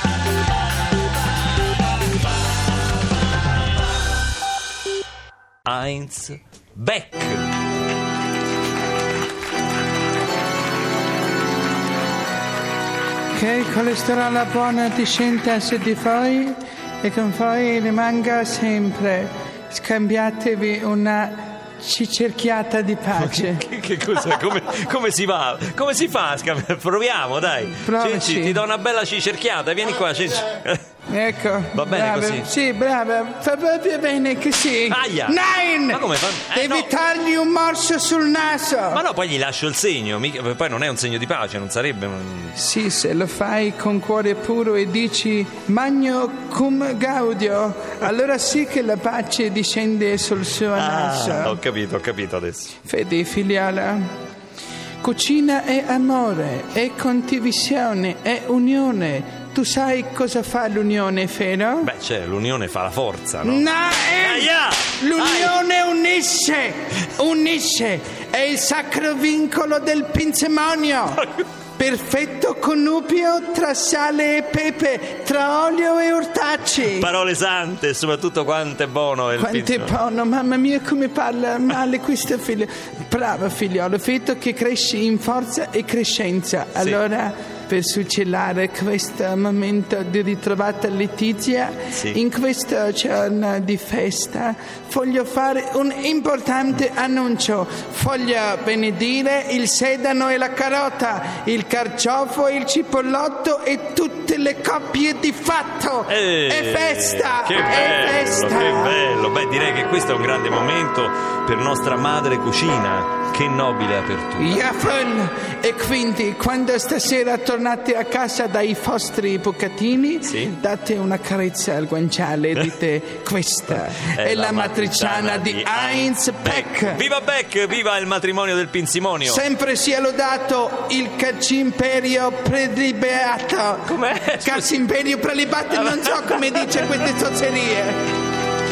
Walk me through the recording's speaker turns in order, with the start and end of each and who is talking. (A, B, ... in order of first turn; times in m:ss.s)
0:05.6-0:07.5 A
0:13.3-0:23.6 B
0:23.2-0:30.8 A
0:27.8-0:28.6 B
0:31.1-0:39.0 B
0:31.7-0:32.5 A
0:34.9-0:36.9 A
0:38.9-0:42.6 A
0:42.6-0:51.6 B
0:50.7-0:52.8 A
0:52.8-0:54.0 B
0:55.0-1:01.9 B
1:01.8-1:05.6 A
1:03.4-1:11.2 B
1:11.1-1:11.4 A
1:11.8-1:17.1 B
1:16.9-1:19.9 A
1:19.4-1:49.0 B
1:31.9-1:32.2 A
1:46.1-1:54.6 A
1:54.4-2:07.0 B
2:00.2-2:00.5 A
2:04.0-2:09.4 A
2:09.2-2:18.0 B
2:13.8-2:14.8 A
2:15.7-2:17.0 A